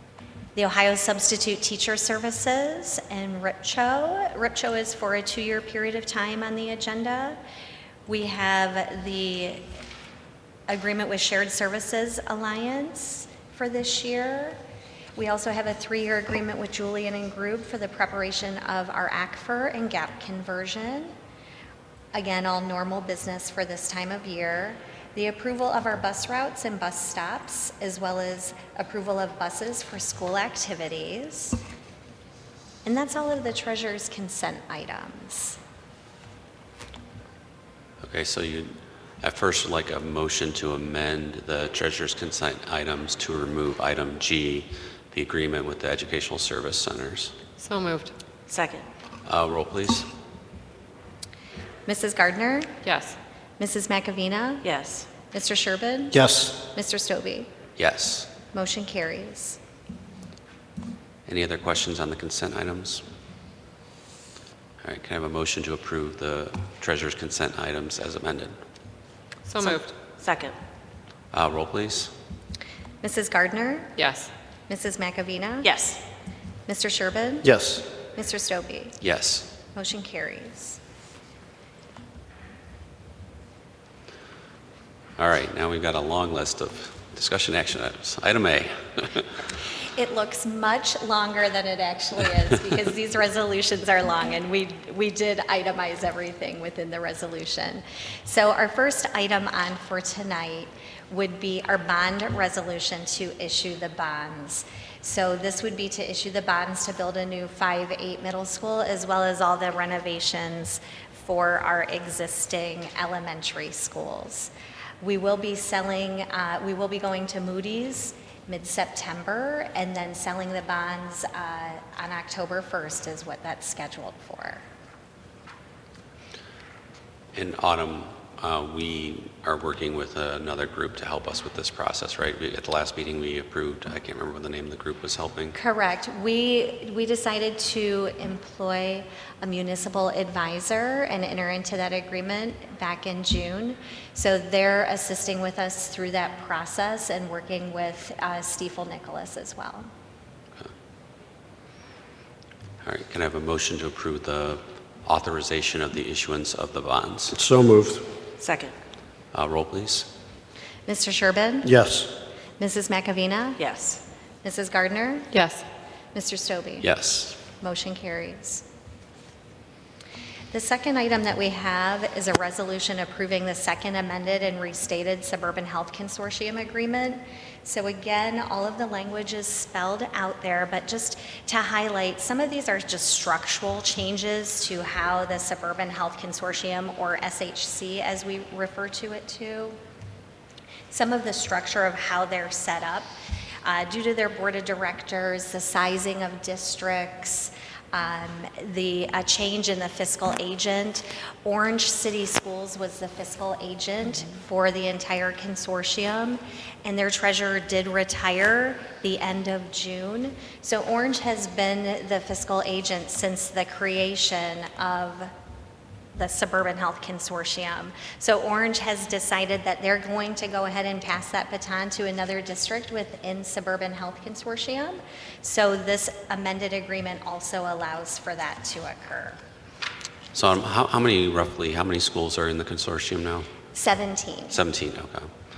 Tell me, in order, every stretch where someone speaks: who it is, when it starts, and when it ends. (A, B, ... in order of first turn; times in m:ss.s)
0:00.5-0:07.4 A
0:08.1-0:09.6 A
0:10.7-0:14.6 A
0:15.2-0:21.1 A
0:22.1-0:31.6 A
0:32.8-0:35.6 A
0:38.0-0:47.3 B
0:47.6-0:48.1 C
0:48.5-0:48.8 D
0:49.2-0:50.1 B
0:51.8-0:52.8 A
0:52.8-0:53.2 C
0:53.6-0:54.7 A
0:54.6-0:55.1 D
0:55.3-0:57.5 A
0:56.1-0:56.6 E
0:57.8-0:58.3 B
0:58.5-0:59.6 A
1:01.2-1:03.0 B
1:04.8-1:08.6 B
1:09.4-1:09.9 C
1:10.1-1:10.5 D
1:11.3-1:12.1 B
1:13.0-1:14.0 A
1:14.0-1:14.3 C
1:14.7-1:15.7 A
1:15.6-1:16.0 D
1:16.7-1:17.5 A
1:17.4-1:17.8 E
1:18.1-1:19.0 A
1:19.0-1:19.5 B
1:19.7-1:20.8 A
1:25.2-1:29.3 B
1:30.0-2:04.6 A
2:07.3-2:15.6 B
2:15.5-2:29.9 A
2:32.8-2:37.4 B
2:37.4-2:38.0 E
2:38.4-2:38.7 D
2:39.3-2:40.1 B
2:40.8-2:41.7 A
2:41.6-2:42.1 E
2:42.6-2:43.6 A
2:43.6-2:44.0 D
2:44.4-2:45.4 A
2:45.3-2:45.6 C
2:46.1-2:46.9 A
2:46.8-2:47.4 B
2:47.5-2:48.6 A
2:50.5-3:09.8 A
3:10.9-3:13.1 A
3:13.6-3:35.3 A
3:36.1-3:49.4 A
3:50.3-3:53.5 B
3:53.7-3:54.6 A
3:54.5-3:55.3 B